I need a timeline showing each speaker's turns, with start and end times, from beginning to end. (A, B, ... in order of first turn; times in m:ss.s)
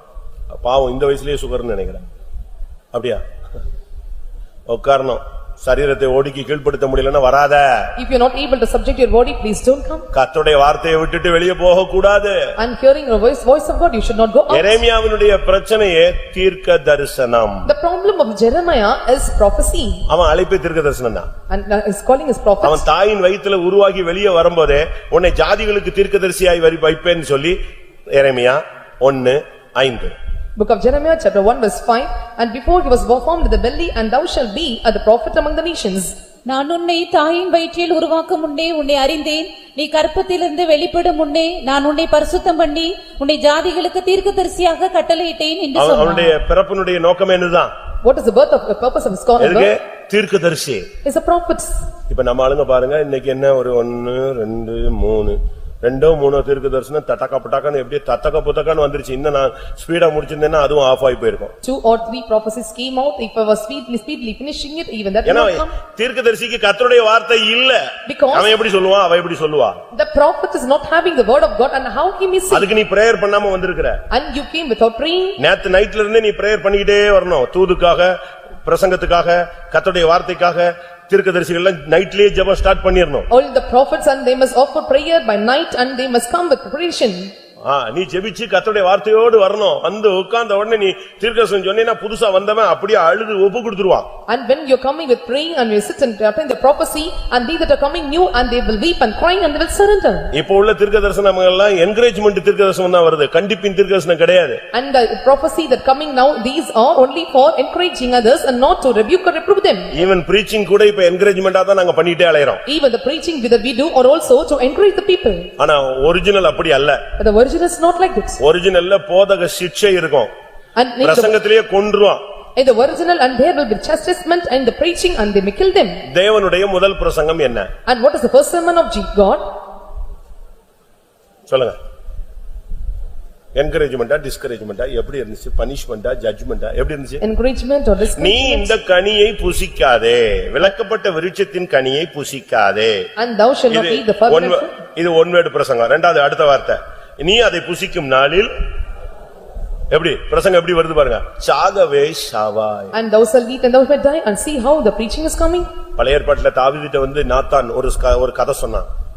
0:00.5-0:02.0 A
0:02.9-0:03.2 A
0:04.7-0:07.9 A
0:08.0-0:10.1 B
0:10.1-0:12.5 A
0:12.6-0:14.8 B
0:14.5-0:17.7 A
0:17.6-0:20.0 B
0:20.1-0:21.3 A
0:21.5-0:22.8 B
0:22.6-0:27.6 A
0:28.1-0:30.1 A
0:30.6-0:36.1 B
0:36.5-0:46.3 C
0:45.8-0:47.7 A
0:48.0-0:49.7 B
0:49.4-0:50.9 A
0:51.0-0:51.8 B
0:52.1-1:01.5 A
1:01.6-1:05.8 B
1:05.2-1:09.8 A
1:08.0-1:08.6 B
1:09.9-1:12.7 B
1:12.5-1:14.0 A
1:14.1-1:15.4 B
1:15.4-1:23.3 A
1:23.3-1:27.3 B
1:27.6-1:34.1 A
1:34.3-1:40.3 B
1:40.3-1:44.6 A
1:44.7-1:49.9 B
1:49.9-1:52.6 A
1:52.6-1:55.5 B
1:55.6-1:57.0 A
1:57.2-1:58.4 B
1:58.4-2:00.3 A
2:00.8-2:01.3 B
2:01.0-2:02.2 A
2:02.6-2:06.0 B
2:06.1-2:07.7 A
2:07.9-2:09.6 B
2:11.5-2:11.8 A
2:13.6-2:17.2 A
2:17.2-2:18.7 B
2:18.1-2:23.1 A
2:23.2-2:24.7 B
2:23.7-2:28.5 A
2:29.9-2:32.9 A
2:32.9-2:35.7 B
2:36.0-2:38.9 A